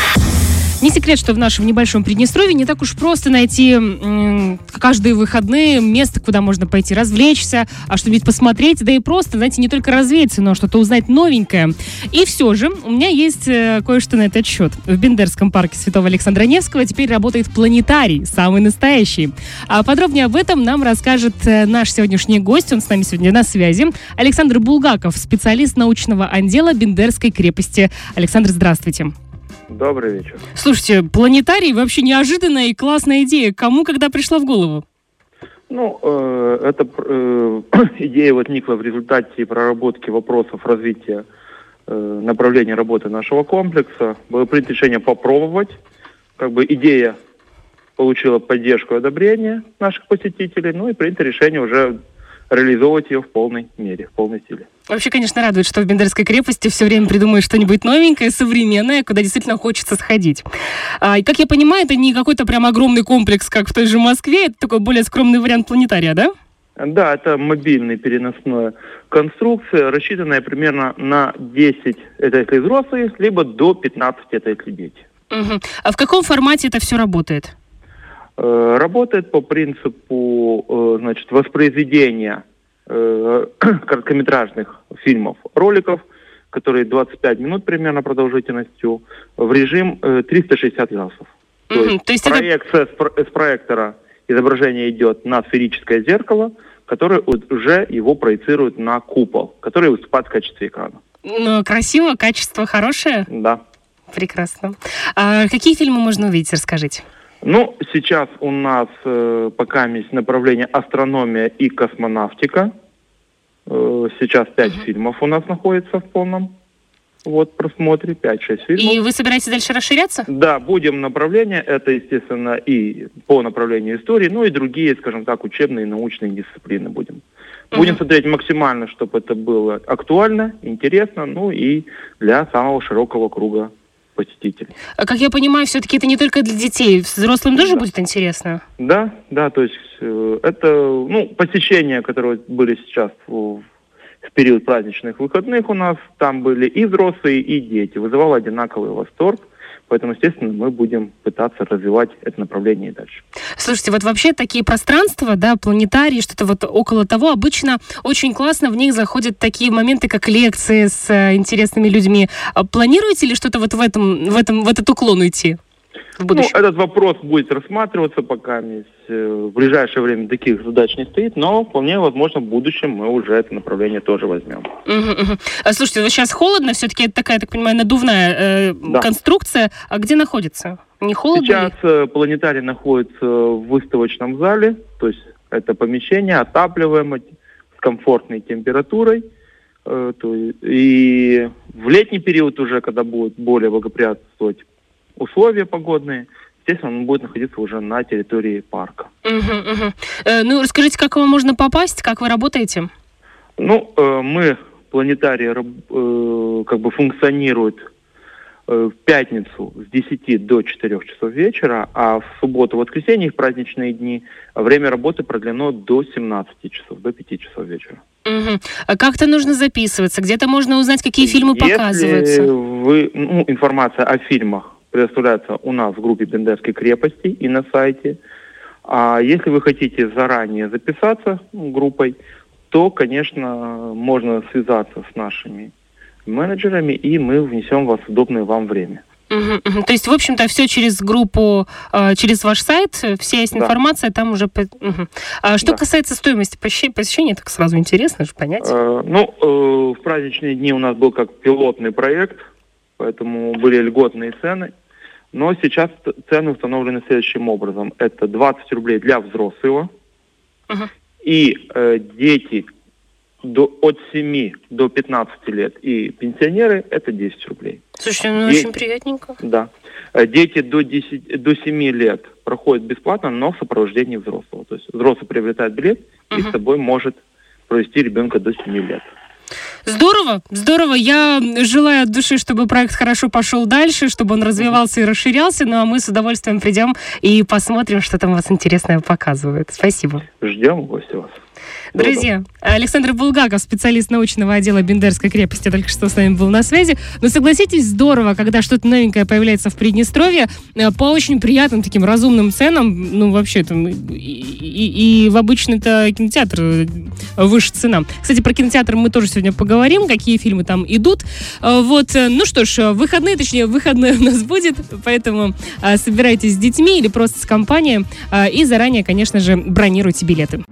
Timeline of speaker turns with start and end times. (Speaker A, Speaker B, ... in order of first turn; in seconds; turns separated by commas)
Speaker A: 0.8-29.1, Speaker B: 29.7-30.4, Speaker A: 30.5-34.8, Speaker B: 35.7-41.2, Speaker B: 41.9-45.8, Speaker B: 46.4-47.2, Speaker B: 48.0-52.0, Speaker B: 52.5-54.7, Speaker A: 54.9-60.5, Speaker A: 61.0-66.3, Speaker B: 66.8-75.0, Speaker A: 75.3-77.5, Speaker B: 78.4-101.0, Speaker A: 91.7-92.5, Speaker A: 101.2-103.3, Speaker B: 103.3-103.6, Speaker A: 104.1-107.0, Speaker B: 107.4-112.7, Speaker B: 113.7-116.5, Speaker B: 117.2-119.0, Speaker A: 118.8-120.2, Speaker B: 120.3-127.2, Speaker A: 127.7-128.0, Speaker B: 127.7-134.7, Speaker A: 135.0-138.6, Speaker B: 137.6-137.8, Speaker B: 138.8-143.6, Speaker B: 144.2-153.2, Speaker A: 153.6-165.6, Speaker A: 166.2-166.6, Speaker B: 166.3-174.7, Speaker A: 174.9-181.7, Speaker B: 181.3-187.2, Speaker B: 187.8-189.2, Speaker B: 189.8-194.7, Speaker B: 195.2-199.1, Speaker A: 199.2-202.9, Speaker B: 203.6-207.9, Speaker B: 208.7-218.0, Speaker A: 218.3-222.5, Speaker B: 221.2-228.2, Speaker B: 228.8-232.2, Speaker B: 232.7-235.7, Speaker B: 236.3-239.0, Speaker A: 239.3-248.7, Speaker B: 248.6-252.4, Speaker B: 253.0-254.7, Speaker B: 255.3-259.9, Speaker B: 261.2-262.7, Speaker B: 263.4-267.8, Speaker A: 268.0-269.4, Speaker B: 268.4-268.7, Speaker B: 269.4-279.1, Speaker A: 276.3-276.6, Speaker A: 279.9-290.2, Speaker B: 290.4-291.4, Speaker A: 291.9-320.6, Speaker B: 292.0-292.2